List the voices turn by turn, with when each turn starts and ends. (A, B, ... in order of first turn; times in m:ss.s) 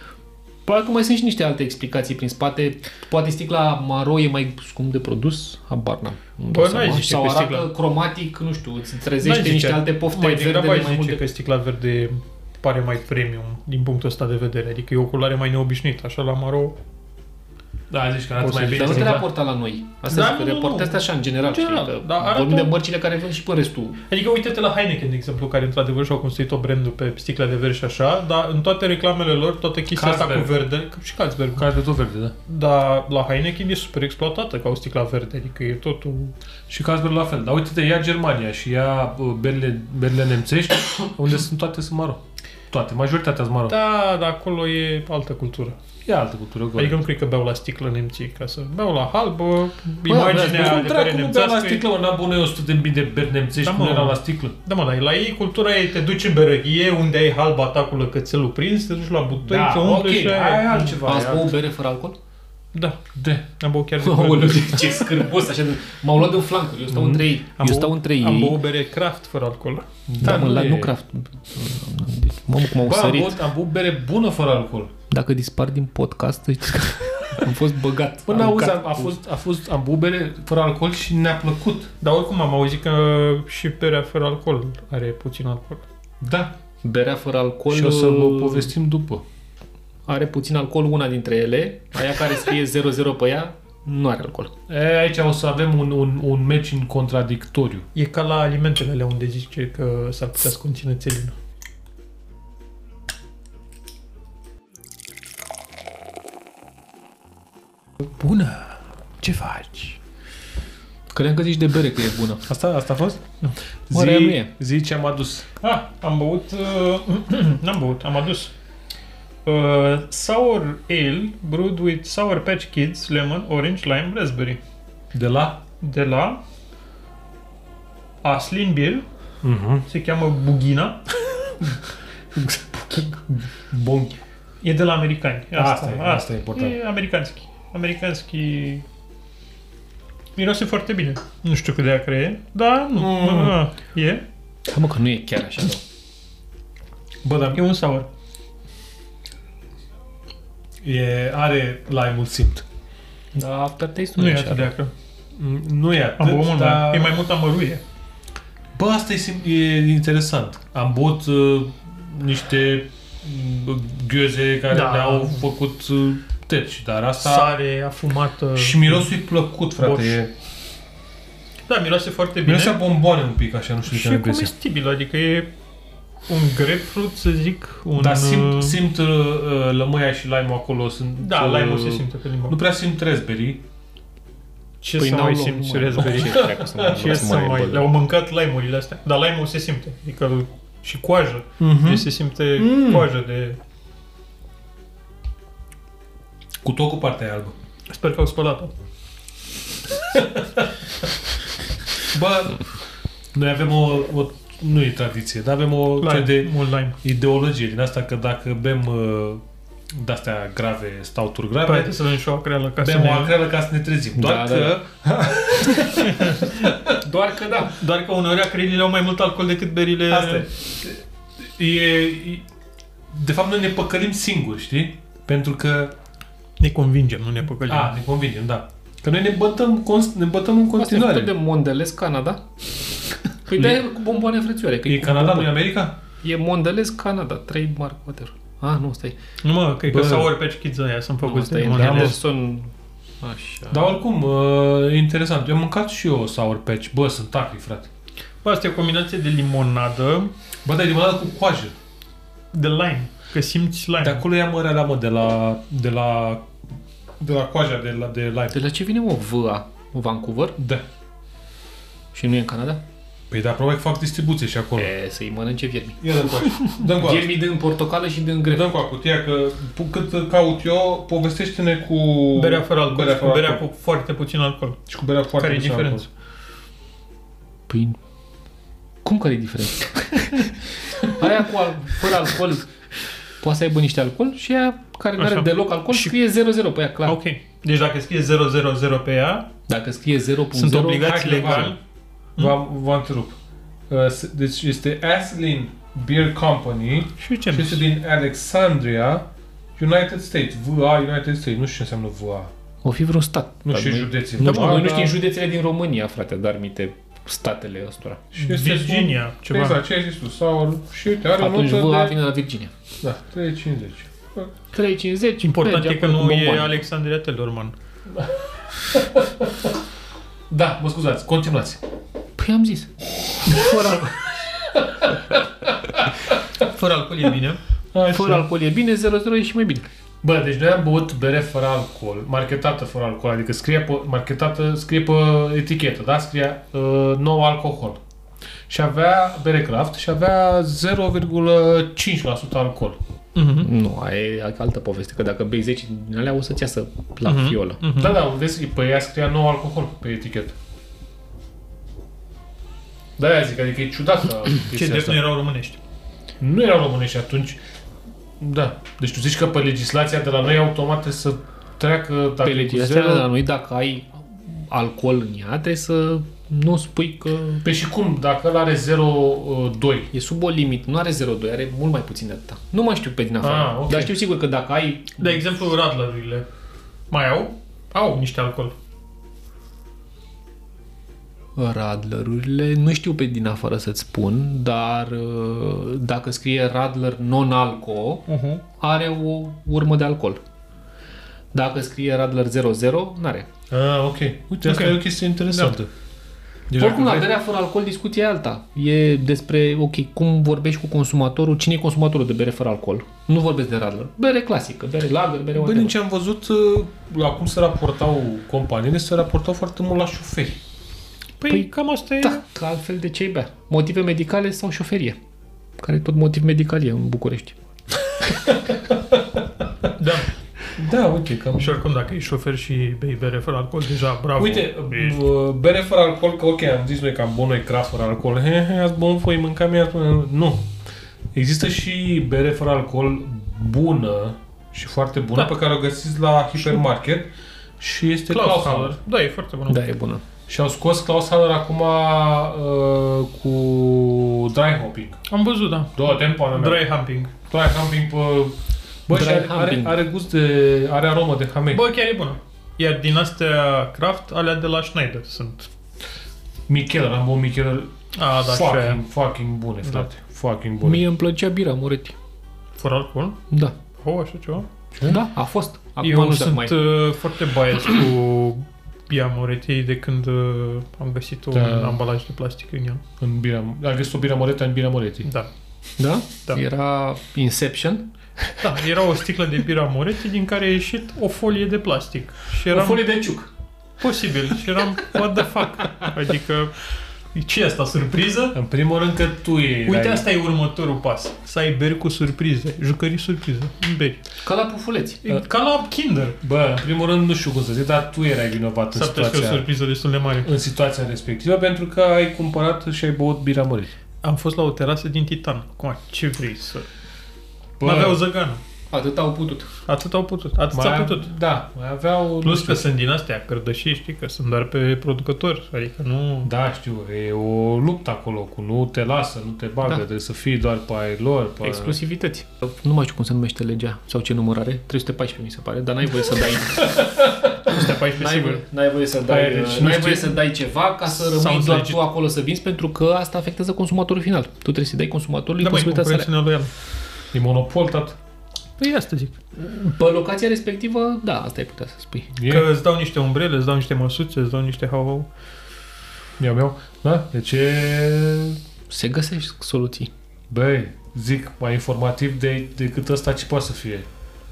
0:00.6-0:11.2 A
0:06.5-0:07.7 B
0:09.2-0:16.8 B
0:17.9-0:19.3 C
0:18.4-0:19.2 B
0:18.7-0:24.0 A
0:20.1-0:22.7 B
0:24.1-0:31.6 B
0:29.9-0:30.6 C
0:31.6-0:32.3 C
0:32.5-0:36.3 B
0:36.7-0:43.8 C
0:43.7-0:45.8 B
0:46.0-0:47.0 C
0:46.8-0:51.8 B
0:50.1-0:50.6 A
0:50.3-0:54.5 C
0:53.6-1:01.0 B
0:59.4-1:01.5 C
1:01.0-1:02.2 A
1:02.7-1:03.0 B
1:03.2-1:03.4 C
1:03.6-1:05.2 B
1:04.0-1:08.6 A
1:06.9-1:07.2 C
1:07.6-1:09.9 B
1:10.1-1:10.9 C
1:10.2-1:13.4 A
1:12.8-1:14.9 C
1:15.1-1:19.1 A
1:18.2-1:21.9 C
1:22.0-1:25.8 B
1:26.2-1:26.5 C
1:26.8-1:28.7 A
1:27.7-1:29.2 C
1:30.1-1:34.5 A
1:34.7-1:37.8 C
1:37.9-1:41.3 B
1:48.0-1:50.0 B
1:51.1-1:52.4 A
1:52.5-1:53.3 C
1:53.9-1:55.5 C
1:53.9-1:54.5 A
1:55.6-1:58.5 B
1:59.4-2:04.6 B
2:05.1-2:05.6 C
2:05.8-2:06.4 B
2:08.2-2:09.0 B
2:09.4-2:09.9 C
2:09.9-2:11.0 B
2:12.3-2:14.2 C
2:14.6-2:18.8 B
2:15.5-2:16.8 C
2:20.4-2:24.2 B
2:23.0-2:23.6 C
2:24.7-2:25.8 A
2:27.2-2:27.6 C
2:27.5-2:28.1 B
2:30.8-2:32.6 C
2:33.3-2:34.7 A
2:34.2-2:34.9 B
2:35.4-2:37.2 C
2:36.2-2:37.8 B
2:38.7-2:47.6 C
2:44.7-2:45.4 B
2:47.2-2:49.1 B
2:48.6-2:50.3 C
2:49.8-2:50.2 B
2:51.7-2:52.8 B
2:52.4-2:54.5 C
2:53.9-2:55.5 B
2:56.3-2:58.8 B
2:58.0-3:03.6 C
3:01.2-3:02.6 B
3:04.8-3:13.6 B
3:05.0-3:07.9 A
3:06.2-3:07.3 C
3:11.6-3:13.1 C
3:16.6-3:17.5 C
3:17.9-3:18.7 B
3:20.1-3:20.7 C
3:22.1-3:22.6 C
3:23.3-3:31.9 C
3:26.0-3:27.0 B
3:31.6-3:33.3 B
3:32.8-3:36.8 C
3:34.1-3:34.8 A
3:36.0-3:36.6 B
3:37.0-3:37.8 A
3:37.7-3:40.5 B
3:40.1-3:42.4 C
3:43.1-3:45.9 C
3:46.6-3:47.9 B
3:47.7-3:51.3 C
3:50.8-3:52.4 A
3:53.5-3:55.6 A
3:53.5-3:53.8 C
3:54.8-3:56.0 C
3:56.2-3:59.2 A
3:59.4-4:02.2 B
3:59.9-4:00.3 C
4:01.2-4:03.9 A
4:01.6-4:02.2 C
4:03.7-4:07.9 C
4:08.4-4:10.3 B
4:10.6-4:11.7 C
4:12.5-4:14.2 B
4:14.0-4:16.5 C
4:17.2-4:18.6 C
4:18.5-4:20.6 A
4:20.6-4:20.8 C
4:22.1-4:22.8 A
4:23.3-4:24.9 C
4:24.8-4:28.7 A
4:26.0-4:27.4 C
4:28.5-4:33.6 C
4:32.3-4:34.8 B
4:34.9-4:36.0 C
4:35.4-4:36.1 B
4:37.7-4:38.0 A
4:39.0-4:42.7 A
4:43.4-4:47.2 A
4:45.2-4:46.2 B
4:47.0-4:49.5 B
4:49.7-4:51.2 A
4:50.5-4:51.8 B
4:50.9-4:51.8 C
4:52.4-4:53.4 C
4:53.9-4:59.2 C
4:57.2-4:57.8 B
4:59.8-5:02.5 C
5:02.8-5:08.2 A
5:03.6-5:05.2 C
5:04.4-5:04.9 B
5:08.3-5:12.2 C
5:08.4-5:09.8 B
5:11.4-5:12.7 A
5:13.0-5:14.5 C
5:14.7-5:16.8 A
5:15.4-5:17.7 B
5:18.9-5:19.7 C
5:20.5-5:21.8 C
5:22.4-5:24.2 A
5:23.5-5:23.9 C
5:24.7-5:25.2 C
5:26.6-5:27.6 B
5:27.9-5:28.5 C
5:28.1-5:29.8 A
5:30.2-5:38.0 C
5:38.7-5:43.0 C
5:43.3-5:43.7 B
5:43.6-5:47.8 A
5:47.2-5:48.2 B
5:47.9-5:50.5 C
5:53.2-5:55.2 C
5:54.7-5:55.8 B
5:56.4-5:57.6 C
5:58.4-6:03.3 C
6:02.4-6:07.6 A
6:07.6-6:10.1 C
6:10.1-6:15.4 A
6:13.4-6:14.2 C
6:15.2-6:16.4 B
6:17.1-6:18.7 B
6:21.6-6:28.2 A
6:28.3-6:28.6 B
6:28.8-6:30.4 A
6:31.5-6:33.5 A
6:33.7-6:35.9 C
6:34.6-6:35.7 B
6:36.7-6:37.3 C
6:36.8-6:45.9 A
6:45.5-6:50.6 C
6:51.4-6:52.4 B
6:52.2-6:55.2 A
6:55.8-6:57.6 A
6:58.5-6:59.2 C
6:59.9-7:00.3 B
7:00.8-7:01.8 C
7:01.5-7:05.2 B
7:04.4-7:10.7 C
7:11.3-7:19.0 C
7:18.3-7:19.8 B
7:19.7-7:20.2 A
7:20.5-7:25.2 C
7:25.3-7:27.3 B
7:25.9-7:26.9 C
7:27.4-7:31.8 C
7:29.1-7:30.0 A
7:31.7-7:35.7 B
7:36.7-7:41.0 C
7:38.2-7:39.0 B
7:40.8-7:42.1 A
7:42.8-7:43.4 B
7:43.5-7:43.7 A
7:43.9-7:44.7 B
7:45.0-7:46.8 A
7:46.0-7:53.0 B
7:51.5-7:52.0 C
7:53.2-7:55.3 C
7:56.0-7:58.6 A
7:58.6-8:03.0 B
8:02.7-8:03.5 A
8:04.0-8:08.6 B
8:08.5-8:10.2 C
8:09.8-8:14.2 B
8:14.4-8:15.2 A
8:15.2-8:16.4 B
8:16.4-8:19.6 C
8:18.9-8:20.5 B
8:20.4-8:23.9 C
8:24.2-8:26.9 B
8:27.8-8:28.2 C
8:27.8-8:28.6 B
8:28.9-8:29.7 A
8:29.9-8:31.3 B
8:30.7-8:32.9 C
8:32.4-8:36.5 B
8:36.4-8:42.0 C
8:41.6-8:47.1 A
8:47.0-8:47.5 C
8:47.6-8:48.6 B
8:47.7-8:56.3 A
8:49.2-8:50.4 C
8:51.1-8:52.0 B
8:55.6-8:56.7 B
8:57.3-8:58.2 C
8:58.8-8:59.4 B
8:59.6-9:02.3 A
9:02.3-9:02.7 C
9:02.4-9:05.3 B
9:06.4-9:08.6 C
9:08.9-9:10.1 A
9:10.5-9:14.1 C